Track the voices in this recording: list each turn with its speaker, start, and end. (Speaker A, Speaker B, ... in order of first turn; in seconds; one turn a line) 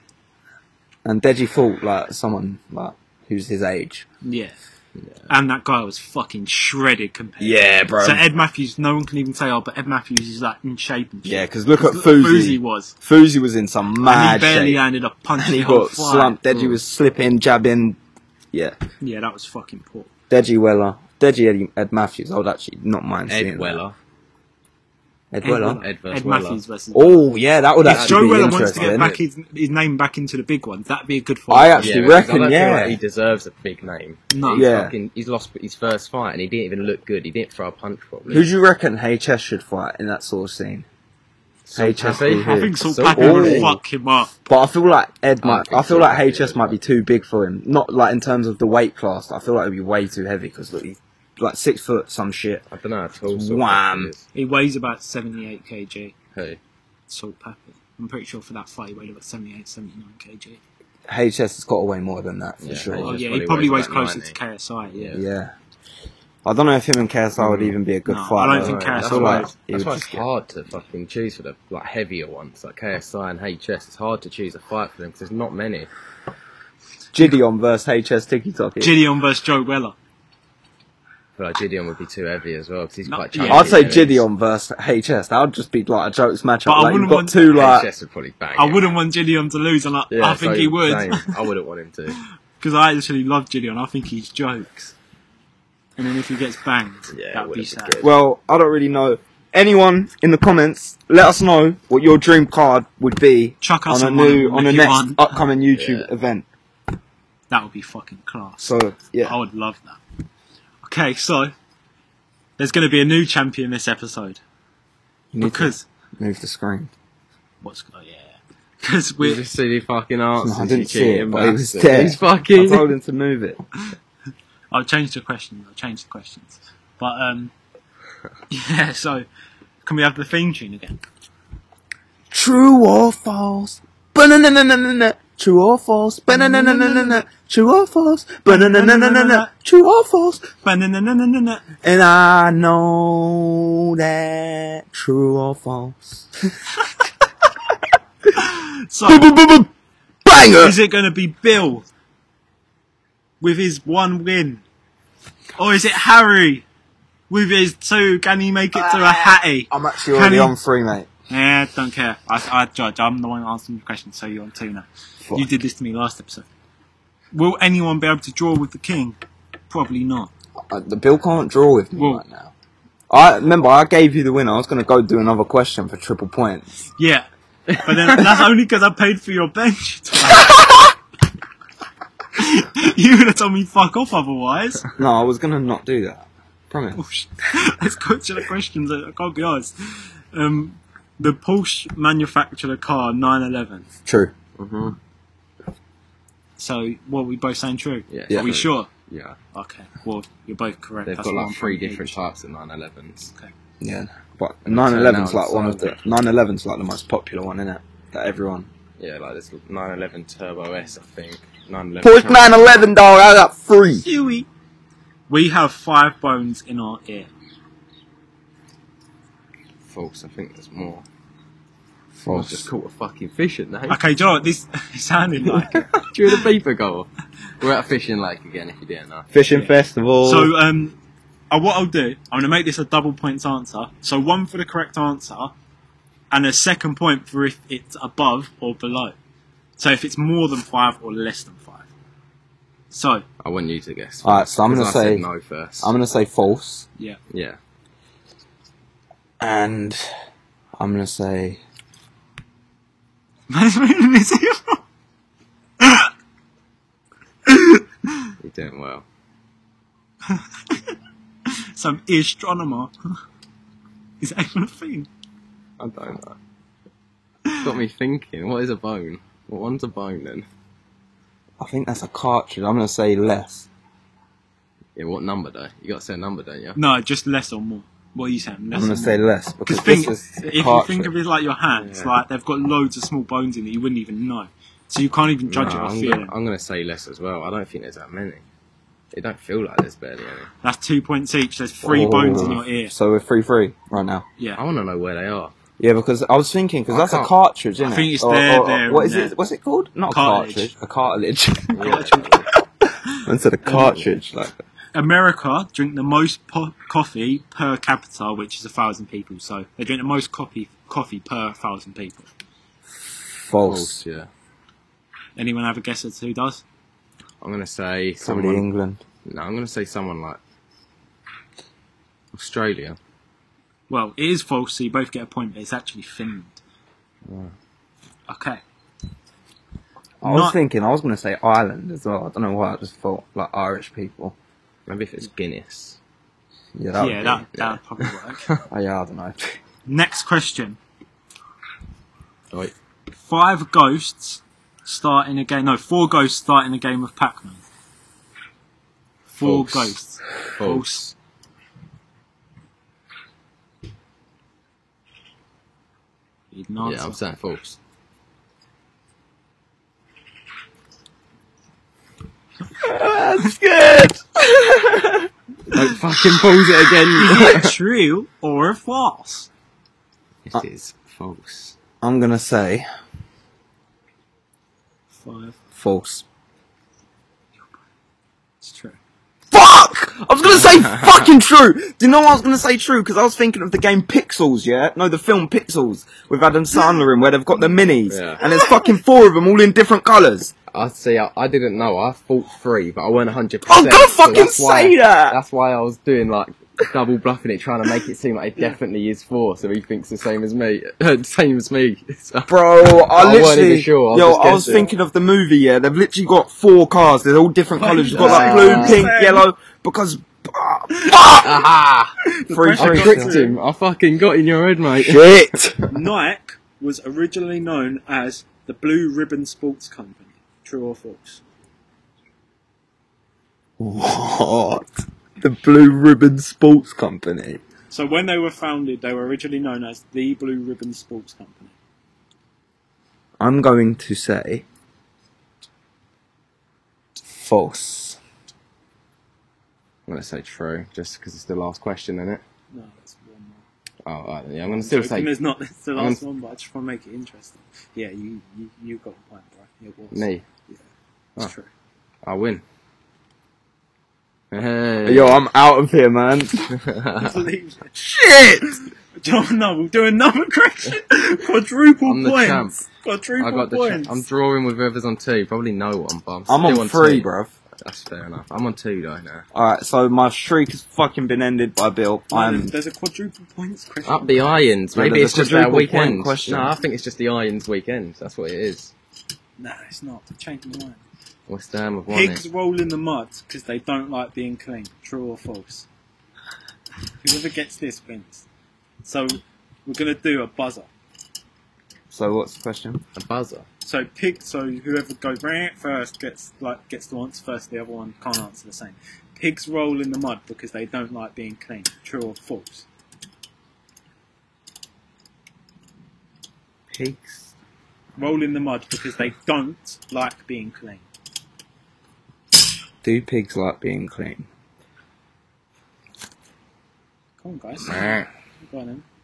Speaker A: 1.0-4.0
Speaker B: 4.2-4.5
Speaker C: 5.0-5.3
Speaker B: 5.3-12.9
Speaker A: 7.4-8.2
Speaker A: 11.2-14.8
Speaker B: 14.0-16.4
Speaker A: 15.3-18.0
Speaker C: 16.5-16.8
Speaker B: 19.0-20.1
Speaker A: 20.3-23.8
Speaker C: 23.3-23.9
Speaker A: 25.3-25.8
Speaker B: 25.4-27.2
Speaker C: 25.8-26.6
Speaker A: 26.9-29.1
Speaker C: 27.8-29.2
Speaker B: 27.8-32.1
Speaker A: 31.5-33.0
Speaker C: 31.8-38.5
Speaker B: 34.3-34.7
Speaker A: 34.5-34.9
Speaker A: 38.3-40.9
Speaker C: 41.6-43.8
Speaker A: 41.7-43.8
Speaker B: 42.0-44.3
Speaker A: 44.5-52.6
Speaker C: 45.4-46.8
Speaker C: 52.7-54.2
Speaker A: 53.3-54.1
Speaker B: 54.3-56.1
Speaker C: 56.3-56.6
Speaker B: 57.1-60.6
Speaker A: 61.1-63.2
Speaker C: 62.6-64.4
Speaker B: 62.9-65.1
Speaker C: 64.9-65.2
Speaker A: 65.1-65.5
Speaker A: 66.4-70.2
Speaker C: 67.4-67.8
Speaker B: 68.1-69.5
Speaker C: 68.5-75.9
Speaker A: 77.1-79.0
Speaker B: 78.8-79.9
Speaker C: 81.3-84.2
Speaker B: 83.1-83.9
Speaker A: 83.4-87.9
Speaker B: 86.7-87.6
Speaker C: 87.4-88.9
Speaker B: 88.5-91.3
Speaker C: 90.1-92.2
Speaker B: 92.6-94.9
Speaker B: 96.0-98.0
Speaker C: 97.1-98.1
Speaker A: 98.0-106.5
Speaker B: 103.6-105.3
Speaker C: 105.7-106.1
Speaker B: 107.5-110.0
Speaker A: 108.6-109.4
Speaker B: 110.8-111.5
Speaker B: 112.6-114.4
Speaker A: 115.3-116.9
Speaker B: 115.4-115.8
Speaker B: 117.6-119.4
Speaker C: 119.2-122.9
Speaker A: 120.4-123.6
Speaker B: 124.7-127.5
Speaker B: 128.5-129.2
Speaker B: 129.8-131.0
Speaker A: 132.3-140.4
Speaker B: 136.3-137.2
Speaker B: 138.4-139.5
Speaker B: 140.6-141.6
Speaker A: 141.8-146.5
Speaker B: 148.3-149.2
Speaker A: 149.0-149.7
Speaker A: 150.2-150.8
Speaker B: 150.6-151.8
Speaker B: 153.4-154.6
Speaker B: 155.6-156.6
Speaker B: 157.3-160.5
Speaker A: 158.7-161.1
Speaker B: 161.3-166.5
Speaker B: 167.3-169.2
Speaker B: 169.7-170.3
Speaker A: 170.7-172.5
Speaker B: 171.9-172.2
Speaker A: 173.1-176.6
Speaker B: 177.0-177.3
Speaker B: 177.8-180.9
Speaker B: 182.3-184.8
Speaker A: 185.0-187.0
Speaker B: 186.9-193.9
Speaker A: 194.1-194.3
Speaker C: 194.6-195.0
Speaker B: 196.6-198.9
Speaker C: 198.1-199.4
Speaker B: 199.5-202.2
Speaker C: 201.1-203.3
Speaker A: 203.8-208.7
Speaker C: 204.7-206.2
Speaker C: 209.0-212.8
Speaker A: 212.0-214.0
Speaker B: 214.0-214.5
Speaker B: 215.3-217.3
Speaker C: 219.9-221.0
Speaker A: 222.2-222.7
Speaker C: 222.3-224.0
Speaker B: 223.9-226.3
Speaker C: 225.4-229.3
Speaker A: 229.3-230.5
Speaker B: 229.5-230.9
Speaker B: 231.5-235.5
Speaker B: 236.3-239.1
Speaker B: 239.8-241.9
Speaker B: 242.9-243.2
Speaker C: 243.4-245.9
Speaker A: 244.2-245.2
Speaker A: 245.8-246.8
Speaker C: 247.3-247.6
Speaker A: 249.4-250.0
Speaker A: 250.8-251.6
Speaker B: 253.5-254.8
Speaker B: 255.8-256.1
Speaker B: 257.4-258.3
Speaker C: 258.4-259.0
Speaker B: 260.3-260.9
Speaker B: 261.7-262.9
Speaker B: 264.2-265.1
Speaker C: 265.8-266.4
Speaker B: 267.5-267.7
Speaker C: 267.6-270.4
Speaker A: 271.6-273.7
Speaker C: 274.9-276.8
Speaker B: 276.7-286.3
Speaker A: 278.7-281.1
Speaker C: 281.7-282.1
Speaker C: 285.5-288.4
Speaker C: 289.1-290.5
Speaker B: 290.6-292.9
Speaker A: 291.8-294.2
Speaker C: 292.1-292.6
Speaker C: 294.6-295.5
Speaker A: 295.8-302.0
Speaker C: 296.9-297.3
Speaker B: 297.8-299.3
Speaker B: 300.1-300.7
Speaker C: 301.7-302.4
Speaker B: 301.8-302.4
Speaker B: 303.1-304.0
Speaker A: 303.2-304.6
Speaker B: 304.9-312.3
Speaker A: 313.1-314.0
Speaker C: 313.6-314.3
Speaker B: 315.4-316.6
Speaker C: 317.4-318.7
Speaker A: 318.2-319.0
Speaker C: 319.2-320.4
Speaker C: 322.3-323.0
Speaker B: 323.9-326.6
Speaker C: 327.2-327.5
Speaker B: 328.3-328.6
Speaker A: 330.2-334.4
Speaker B: 330.2-330.6
Speaker C: 334.9-336.0
Speaker A: 336.8-337.4
Speaker B: 337.0-338.4
Speaker C: 337.5-338.6
Speaker A: 338.7-339.6
Speaker B: 339.9-340.8
Speaker B: 343.2-347.6
Speaker B: 349.3-351.1
Speaker C: 349.4-350.0
Speaker C: 350.6-351.1
Speaker B: 356.5-357.2
Speaker C: 356.8-357.8
Speaker A: 362.8-365.3
Speaker C: 365.7-367.8
Speaker B: 367.1-369.5
Speaker C: 370.4-371.8
Speaker A: 372.0-372.9
Speaker B: 375.2-375.6
Speaker A: 375.8-376.2
Speaker B: 378.6-379.0
Speaker A: 379.5-390.5
Speaker C: 380.6-381.2
Speaker C: 388.1-388.4
Speaker B: 388.4-388.7
Speaker C: 390.7-404.9
Speaker A: 393.6-395.4
Speaker A: 402.4-411.6
Speaker B: 407.8-409.4
Speaker C: 408.1-409.1
Speaker B: 410.9-411.4
Speaker C: 411.3-412.1
Speaker B: 412.2-413.6
Speaker A: 412.5-413.4
Speaker C: 412.8-415.2
Speaker A: 415.0-415.9
Speaker B: 415.9-421.4
Speaker A: 423.8-424.9
Speaker A: 425.4-427.6
Speaker B: 427.9-431.7
Speaker A: 433.4-434.6
Speaker A: 437.3-438.2
Speaker C: 440.1-442.4
Speaker B: 442.7-443.6
Speaker C: 444.0-445.4
Speaker B: 444.8-450.8
Speaker C: 445.9-446.2
Speaker C: 450.1-450.4
Speaker B: 451.4-451.7
Speaker C: 452.2-452.6
Speaker C: 454.5-455.4
Speaker A: 455.0-456.7
Speaker C: 456.7-457.4
Speaker B: 457.2-458.0
Speaker A: 458.0-458.7
Speaker B: 459.2-464.2
Speaker C: 462.1-462.8
Speaker C: 463.4-467.3
Speaker A: 466.5-467.5
Speaker C: 467.8-469.4
Speaker A: 469.5-472.7
Speaker B: 472.3-474.5
Speaker C: 474.0-478.9
Speaker A: 474.9-476.7
Speaker B: 479.6-481.0
Speaker C: 481.5-482.4
Speaker B: 482.1-485.9
Speaker B: 487.2-488.4
Speaker B: 489.0-490.9
Speaker A: 492.1-493.0
Speaker C: 493.1-493.6
Speaker B: 493.8-502.9
Speaker A: 506.9-507.5
Speaker B: 508.2-511.0
Speaker A: 513.0-514.5
Speaker B: 517.4-519.0
Speaker C: 517.8-518.3